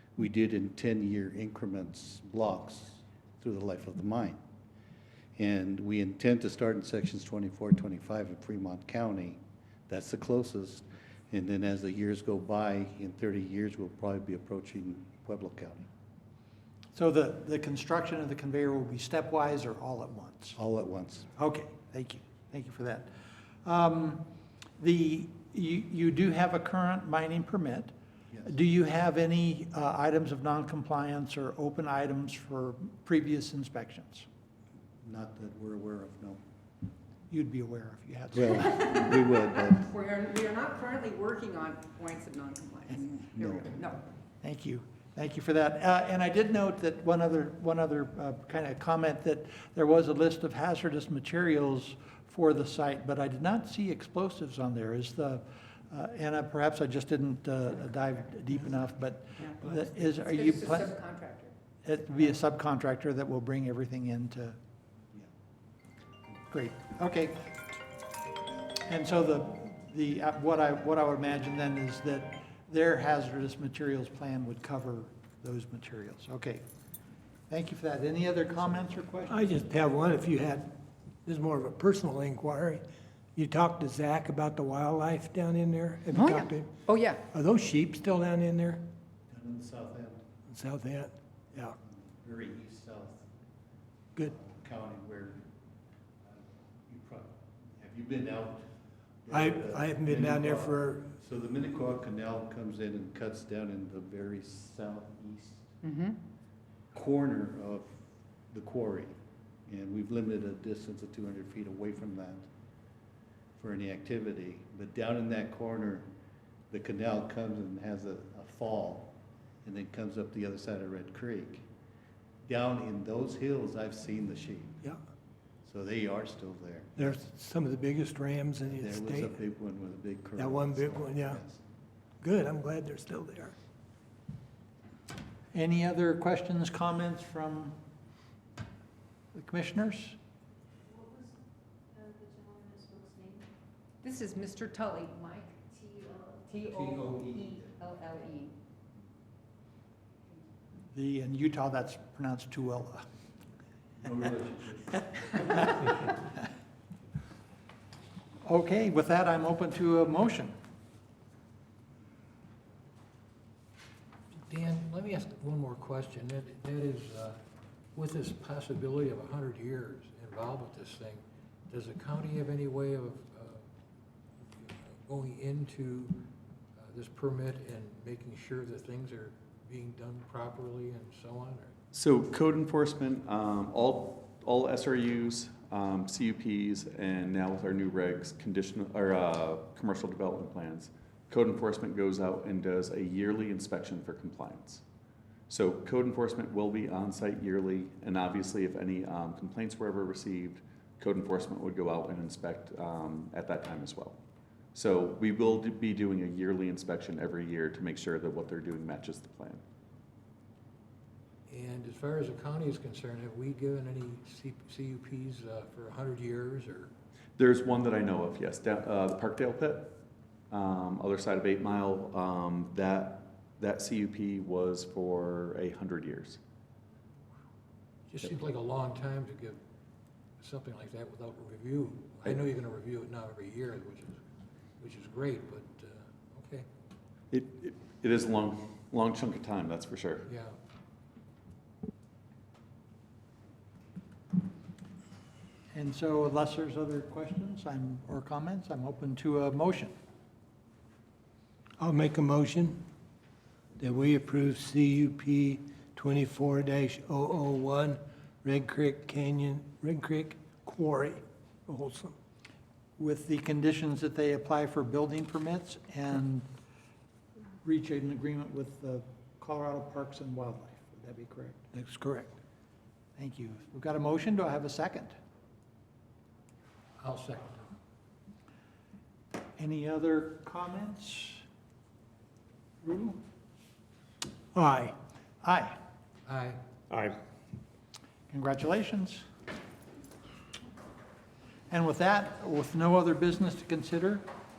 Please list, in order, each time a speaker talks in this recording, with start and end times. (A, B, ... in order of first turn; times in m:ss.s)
0:00.2-0:04.4 A
0:05.4-0:15.9 A
0:16.9-0:20.6 B
0:20.6-0:21.3 A
0:21.3-0:24.2 B
0:24.8-0:27.9 B
0:28.4-0:34.3 B
0:35.0-0:36.4 A
0:37.3-0:38.9 B
0:38.3-0:39.9 A
0:39.0-0:44.0 C
0:43.4-0:43.7 A
0:44.4-1:00.9 B
1:00.2-1:01.5 C
1:01.8-1:04.6 B
1:06.5-1:07.5 B
1:08.8-1:16.6 B
1:17.5-1:19.4 B
1:19.3-1:20.7 D
1:21.2-1:22.8 D
1:23.3-1:26.7 D
1:26.1-1:27.2 C
1:27.3-1:28.8 D
1:29.3-1:30.2 A
1:30.5-1:31.8 D
1:31.8-1:33.3 A
1:34.3-1:35.5 A
1:36.2-1:38.7 A
1:39.2-1:45.8 A
1:39.3-1:41.0 D
1:45.8-1:46.2 C
1:46.9-1:49.1 A
1:49.7-1:52.5 A
1:53.6-1:56.1 A
1:56.7-2:01.6 A
2:02.4-2:04.8 A
2:05.6-2:07.2 A
2:07.0-2:09.3 D
2:08.7-2:11.6 A
2:10.4-2:11.4 D
2:12.2-2:13.5 D
2:15.5-2:17.8 B
2:19.3-2:20.2 B
2:24.0-2:28.5 C
2:26.7-2:27.6 A
2:30.9-2:33.0 B
2:34.0-2:35.7 A
2:38.4-2:40.5 B
2:44.5-2:47.4 E
2:47.9-2:53.6 E
2:54.6-3:01.7 E
3:01.9-3:14.8 F
3:15.5-3:24.2 F
3:24.7-3:29.6 F
3:31.5-3:36.9 E
3:37.4-3:40.0 F
3:40.5-3:46.4 F
3:48.1-3:49.6 E
3:50.4-3:54.2 E
3:54.8-3:56.7 E
3:57.3-4:00.3 F
4:00.2-4:00.5 E
4:05.7-4:09.9 B
4:11.8-4:12.8 D
4:13.8-4:22.1 D
4:23.0-4:26.4 B
4:27.6-4:31.6 B
4:31.7-4:32.3 D
4:33.2-4:35.1 B
4:37.0-4:37.7 E
4:39.6-4:41.4 B
4:42.8-4:43.2 B
4:44.5-4:44.9 D
4:45.4-4:45.8 B
4:46.3-4:46.6 E
4:48.3-4:49.2 B
4:51.7-4:54.2 B